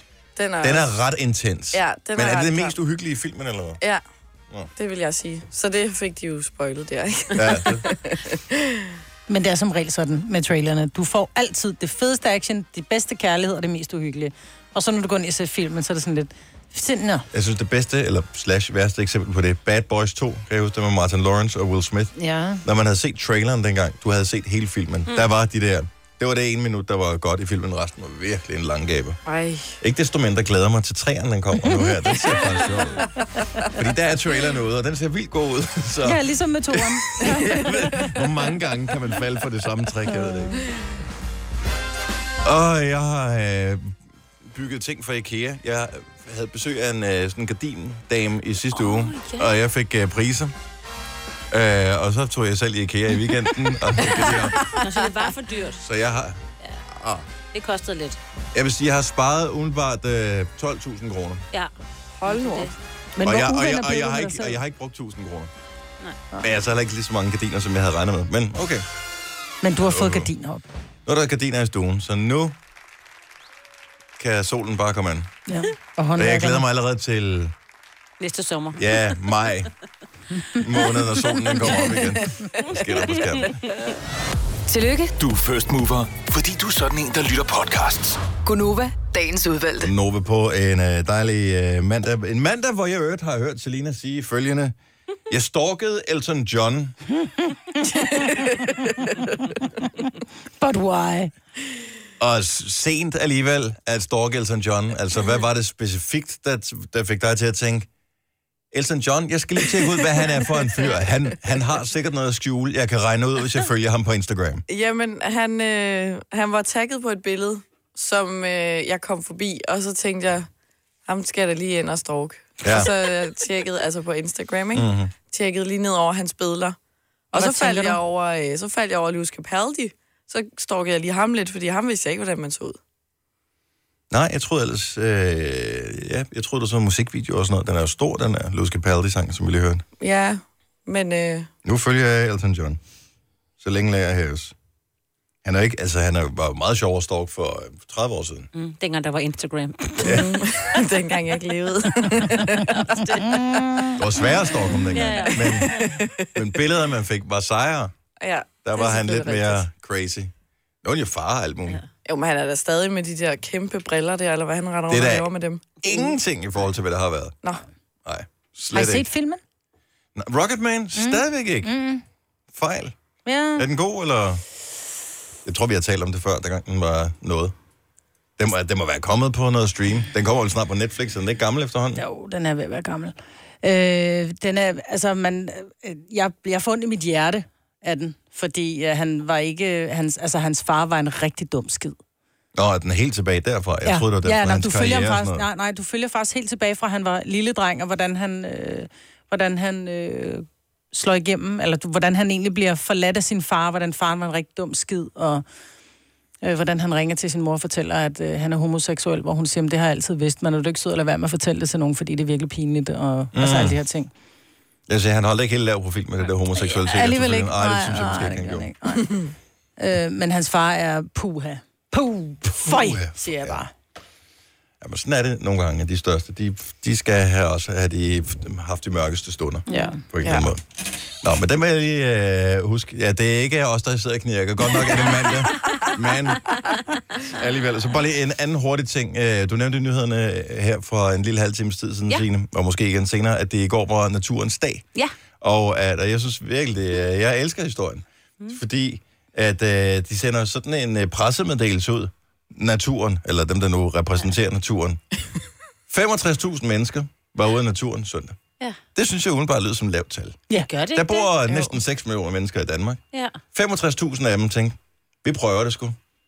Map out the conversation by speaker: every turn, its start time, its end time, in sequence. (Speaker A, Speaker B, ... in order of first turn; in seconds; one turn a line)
Speaker A: 0.3-0.9
Speaker B: 0.6-3.8
Speaker A: 1.7-2.7
Speaker A: 4.8-8.9
Speaker B: 7.3-7.8
Speaker C: 9.3-17.2
Speaker B: 17.3-22.1
Speaker C: 22.2-22.6
Speaker B: 22.6-29.2
Speaker A: 29.2-29.7
Speaker B: 29.8-33.0
Speaker B: 33.7-40.6
Speaker C: 36.0-37.6
Speaker C: 40.1-40.5
Speaker B: 42.4-50.5
Speaker D: 48.7-49.5
Speaker B: 51.5-54.6
Speaker A: 54.5-54.9
Speaker D: 54.7-55.8
Speaker B: 55.8-56.4
Speaker B: 56.9-57.2
Speaker D: 57.5-58.2
Speaker B: 58.5-61.4
Speaker A: 62.2-62.7
Speaker D: 62.2-62.7
Speaker C: 63.2-64.6
Speaker B: 63.2-65.5
Speaker B: 66.4-68.8
Speaker C: 69.6-70.6
Speaker B: 69.8-70.3
Speaker B: 71.0-72.5
Speaker B: 74.2-75.3
Speaker C: 75.5-76.6
Speaker B: 76.2-77.5
Speaker D: 78.2-78.9
Speaker B: 78.7-79.7
Speaker B: 80.5-83.6
Speaker D: 83.1-83.5
Speaker E: 84.7-85.1
Speaker F: 85.2-88.2
Speaker E: 88.4-89.9
Speaker B: 89.8-94.7
Speaker B: 95.3-97.0
Speaker A: 98.0-98.7
Speaker C: 100.6-101.3
Speaker B: 102.2-107.9
Speaker B: 108.7-114.6
Speaker A: 114.7-120.5
Speaker A: 121.0-126.8
Speaker B: 122.6-123.0
Speaker B: 124.7-125.1
Speaker C: 127.3-128.0
Speaker A: 127.3-132.8
Speaker B: 134.1-139.8
Speaker A: 140.0-141.5
Speaker B: 141.6-142.8
Speaker B: 143.6-144.5
Speaker B: 145.4-148.5
Speaker D: 148.5-150.3
Speaker A: 150.0-153.6
Speaker D: 152.6-153.5
Speaker B: 154.0-157.9
Speaker D: 154.9-156.0
Speaker A: 155.7-156.3
Speaker A: 158.2-159.6
Speaker B: 158.6-160.3
Speaker B: 160.8-161.8
Speaker A: 162.1-166.1
Speaker B: 164.9-165.3
Speaker B: 165.8-167.4
Speaker B: 168.0-169.1
Speaker C: 168.7-169.4
Speaker B: 170.1-171.7
Speaker C: 170.9-172.0
Speaker B: 172.5-172.9
Speaker C: 173.2-173.7
Speaker B: 173.6-174.4
Speaker B: 175.4-177.5
Speaker B: 178.4-182.0
Speaker C: 181.9-192.0
Speaker B: 192.5-195.4
Speaker C: 193.8-205.4
Speaker C: 206.4-214.1
Speaker B: 213.3-213.8
Speaker B: 214.9-218.7
Speaker C: 216.9-219.1
Speaker A: 219.0-219.3
Speaker C: 219.8-223.7
Speaker B: 222.6-223.6
Speaker B: 224.8-230.6
Speaker C: 229.7-230.0
Speaker B: 231.2-236.6
Speaker B: 237.2-244.8
Speaker B: 245.4-255.0
Speaker B: 255.9-258.4
Speaker B: 258.9-260.4
Speaker D: 260.6-261.3
Speaker B: 260.9-263.0
Speaker A: 261.5-261.7
Speaker D: 263.1-263.4
Speaker B: 263.5-266.0